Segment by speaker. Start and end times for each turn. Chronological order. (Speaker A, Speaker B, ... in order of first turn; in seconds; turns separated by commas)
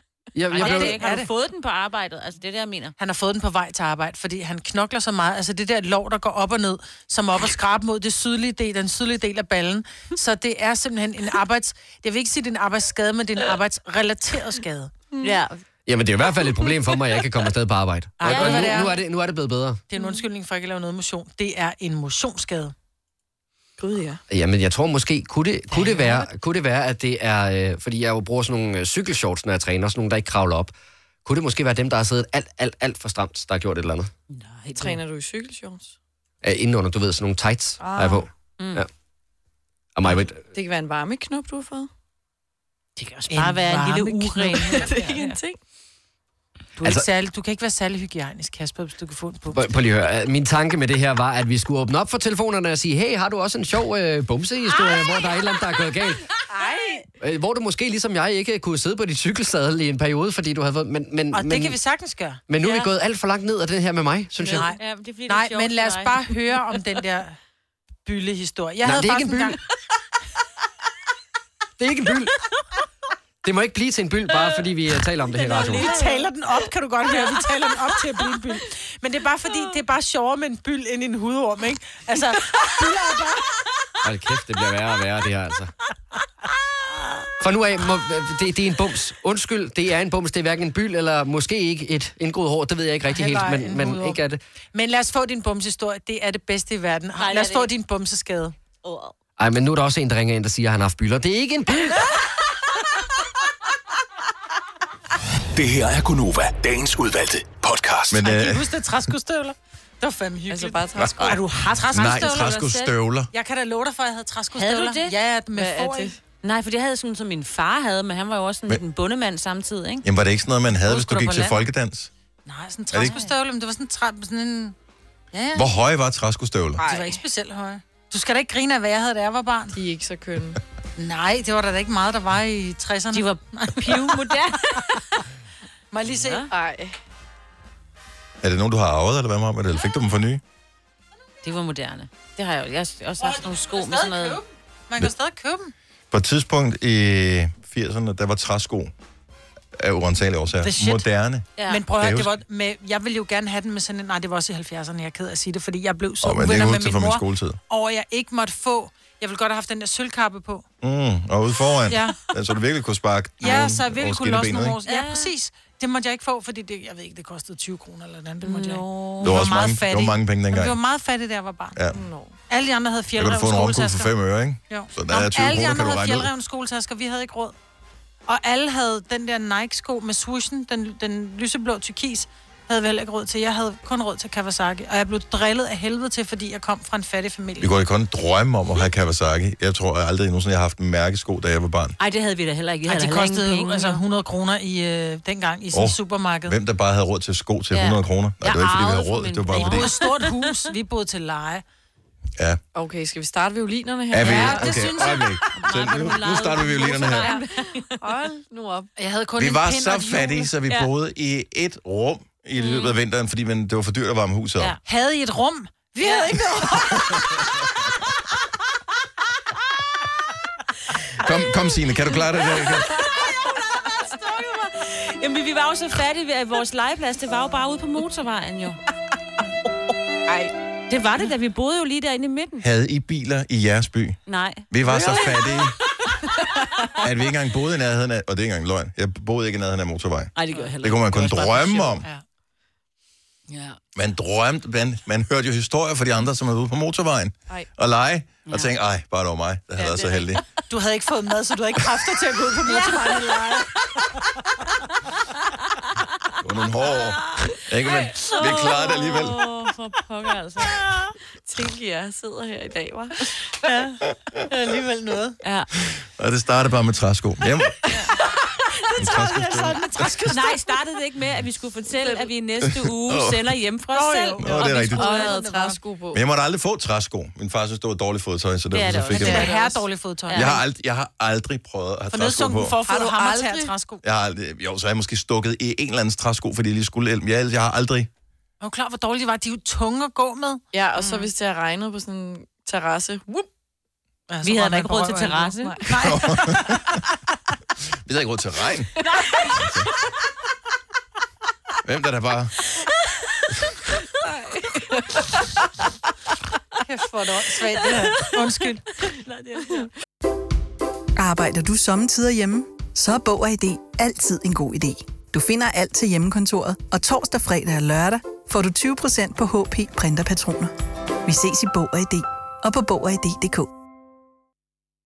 Speaker A: 0.3-1.0, Speaker B: 0.5-3.0, Speaker C: 0.6-1.3, Speaker C: 3.0-14.9, Speaker D: 15.1-15.4, Speaker B: 15.2-15.6, Speaker A: 15.9-19.8, Speaker C: 18.2-18.9, Speaker B: 18.2-18.9, Speaker C: 19.9-22.7, Speaker D: 23.8-24.2, Speaker A: 24.3-30.7, Speaker C: 25.7-26.2, Speaker A: 31.2-34.1, Speaker B: 34.3-35.0, Speaker D: 34.8-36.0, Speaker A: 36.4-38.9, Speaker D: 37.8-38.3, Speaker A: 40.0-40.4, Speaker D: 40.5-41.9, Speaker C: 43.0-45.4, Speaker B: 43.2-44.9, Speaker D: 44.7-45.6, Speaker C: 46.8-49.7, Speaker A: 49.5-56.3, Speaker C: 56.5-57.0, Speaker A: 57.2-61.8, Speaker C: 61.3-62.4, Speaker A: 62.5-64.7, Speaker B: 64.5-66.3, Speaker C: 64.5-67.4, Speaker C: 68.0-69.6, Speaker A: 68.8-69.6, Speaker A: 71.8-72.4, Speaker A: 73.4-75.9, Speaker B: 75.4-76.3, Speaker C: 75.7-83.4, Speaker A: 84.0-85.7, Speaker A: 87.4-94.4, Speaker C: 93.1-94.2, Speaker C: 94.7-98.6, Speaker B: 97.2-97.7, Speaker B: 98.8-99.1, Speaker A: 99.4-102.1, Speaker E: 105.5-108.2, Speaker F: 108.1-108.7, Speaker C: 108.2-116.1, Speaker D: 110.5-111.4, Speaker F: 111.0-113.3, Speaker B: 112.0-112.4, Speaker B: 114.5-115.2, Speaker D: 115.5-116.2, Speaker B: 116.4-120.1, Speaker F: 120.0-122.1, Speaker C: 120.9-121.6, Speaker C: 122.5-124.8, Speaker C: 125.3-125.7, Speaker F: 125.5-126.8, Speaker D: 126.8-127.2, Speaker C: 126.8-129.8, Speaker D: 129.7-130.6, Speaker C: 131.0-135.0, Speaker B: 133.1-135.0, Speaker C: 135.9-136.5, Speaker B: 136.2-136.5, Speaker D: 136.5-137.0, Speaker F: 138.4-140.4, Speaker B: 141.4-144.4, Speaker C: 143.2-145.7, Speaker F: 146.1-148.9, Speaker F: 149.8-152.4, Speaker C: 150.6-151.1, Speaker B: 151.6-151.8, Speaker C: 151.7-160.7, Speaker F: 156.2-157.6, Speaker F: 160.8-164.8, Speaker C: 161.9-162.2, Speaker C: 163.4-171.8, Speaker B: 164.9-165.3, Speaker B: 168.4-169.3, Speaker F: 169.2-170.8, Speaker F: 171.8-172.0, Speaker D: 171.9-172.4, Speaker C: 172.5-174.1, Speaker F: 173.2-176.3, Speaker C: 174.7-177.6, Speaker C: 178.3-187.7, Speaker F: 187.6-192.0, Speaker B: 192.0-194.0, Speaker C: 192.9-196.6, Speaker F: 195.7-199.9, Speaker B: 197.7-200.5, Speaker C: 199.5-201.6, Speaker D: 202.8-204.9, Speaker F: 204.1-207.3, Speaker C: 204.2-205.4, Speaker B: 204.3-204.6, Speaker B: 205.5-208.3, Speaker D: 207.0-208.9, Speaker C: 209.0-210.5, Speaker F: 209.4-214.8, Speaker B: 212.6-212.9, Speaker C: 214.8-217.3, Speaker F: 221.2-223.0, Speaker B: 223.1-223.6, Speaker B: 224.1-228.8, Speaker B: 230.9-232.7, Speaker F: 232.6-234.2, Speaker B: 234.3-235.3, Speaker F: 234.7-235.8, Speaker D: 234.9-235.7, Speaker F: 237.0-242.1, Speaker B: 240.4-242.0, Speaker F: 243.9-250.4, Speaker D: 249.8-250.3, Speaker C: 250.7-254.2, Speaker F: 256.4-259.5, Speaker B: 258.1-260.9, Speaker D: 258.6-259.2, Speaker D: 261.4-263.3, Speaker C: 263.6-265.4, Speaker B: 265.4-265.7, Speaker F: 265.9-267.8, Speaker C: 268.9-270.6, Speaker F: 269.0-270.2, Speaker B: 270.3-275.4, Speaker D: 272.0-272.3, Speaker F: 273.0-273.5, Speaker C: 273.9-275.8, Speaker F: 274.4-275.2, Speaker D: 274.7-276.2, Speaker F: 276.1-279.5, Speaker B: 278.7-280.6, Speaker C: 279.1-280.5, Speaker D: 279.2-279.7, Speaker F: 280.3-282.8, Speaker C: 282.1-284.0, Speaker D: 282.8-283.7, Speaker F: 284.0-288.1, Speaker C: 288.6-291.2, Speaker D: 290.7-293.5, Speaker C: 294.3-297.0, Speaker B: 294.4-295.9, Speaker D: 295.6-295.8, Speaker F: 296.0-297.0, Speaker F: 298.1-298.9, Speaker F: 299.5-299.9, Speaker F: 301.8-302.6, Speaker D: 304.2-305.3, Speaker C: 306.8-308.9, Speaker B: 309.1-309.9, Speaker G: 311.2-320.7, Speaker G: 321.3-323.7